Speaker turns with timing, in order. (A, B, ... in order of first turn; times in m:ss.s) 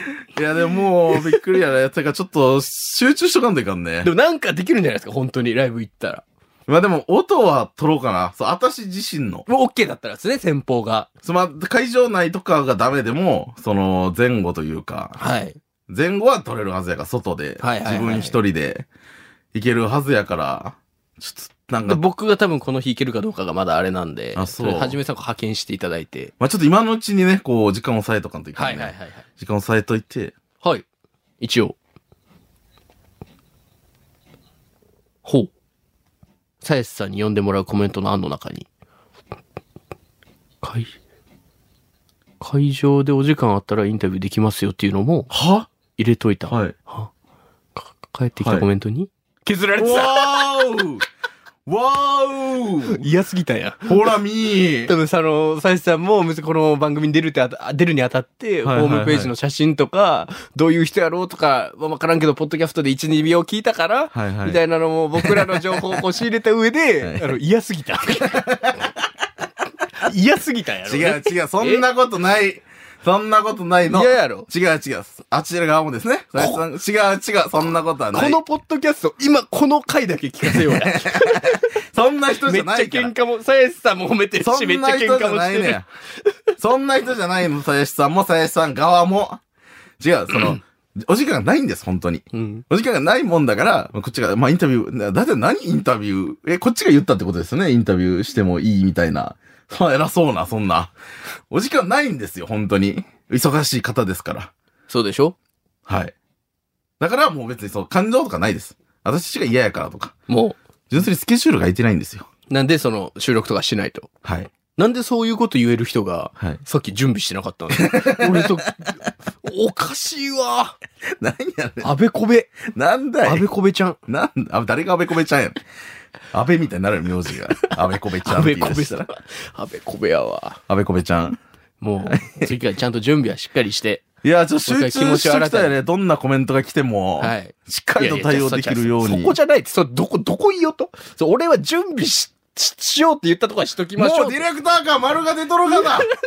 0:00.4-0:04.1 A
0:01.1-0:01.4 B
0:04.0-0:06.2 B
0:06.7-0:09.5 A
0:09.5-0:11.1 B
0:11.2-0:15.2 A
0:15.2-0:15.6 B
0:15.9-0:18.9 A
0:17.6-0:18.4 B
0:19.5-0:22.0 A
0:21.8-0:26.3 B
0:24.4-0:25.0 A
0:26.4-0:30.4 A
0:28.6-0:29.2 B
0:31.4-0:31.8 B
0:35.2-0:35.5 B
0:36.6-0:38.7 B
0:40.6-0:41.0 B
0:42.4-0:45.3 B
0:45.3-0:45.7 A
0:46.0-0:47.1 B
0:46.5-0:46.8 A
0:47.8-0:50.5 B
0:48.4-0:48.7 A
0:49.8-0:51.0 A
0:51.7-0:53.1 A
0:52.9-0:54.1 B
0:53.9-0:54.9 A
0:54.9-1:08.5 B
0:58.6-0:59.3 A
1:04.1-1:04.6 A
1:05.2-1:06.0 A
1:07.0-1:07.4 A
1:08.3-1:08.9 A
1:10.0-1:11.9 B
1:10.8-1:18.4 A
1:13.9-1:14.5 B
1:16.4-1:16.6 B
1:18.1-1:21.6 B
1:20.5-1:23.1 A
1:22.4-1:25.8 B
1:24.4-1:25.9 A
1:26.6-1:29.4 A
1:30.0-1:40.9 A
1:32.3-1:32.6 B
1:41.5-1:44.5 A
1:44.9-1:45.4 B
1:45.9-1:46.2 A
1:47.0-1:50.1 A
1:50.3-1:50.6 B
1:50.9-1:52.3 A
1:52.5-1:54.1 B
1:54.2-1:54.5 A
1:54.8-2:00.8 B
1:57.8-1:58.7 A
2:01.2-2:01.9 A
2:01.8-2:02.6 B
2:02.7-2:03.5 A
2:03.2-2:04.0 B
2:04.1-2:05.6 A
2:06.3-2:09.1 A
2:08.2-2:10.6 B
2:10.7-2:11.4 A
2:11.8-2:14.0 B
2:12.0-2:12.5 A
2:14.2-2:19.4 A
2:14.7-2:15.8 B
2:17.2-2:24.5 B
2:24.0-2:26.1 A
2:25.7-2:26.1 B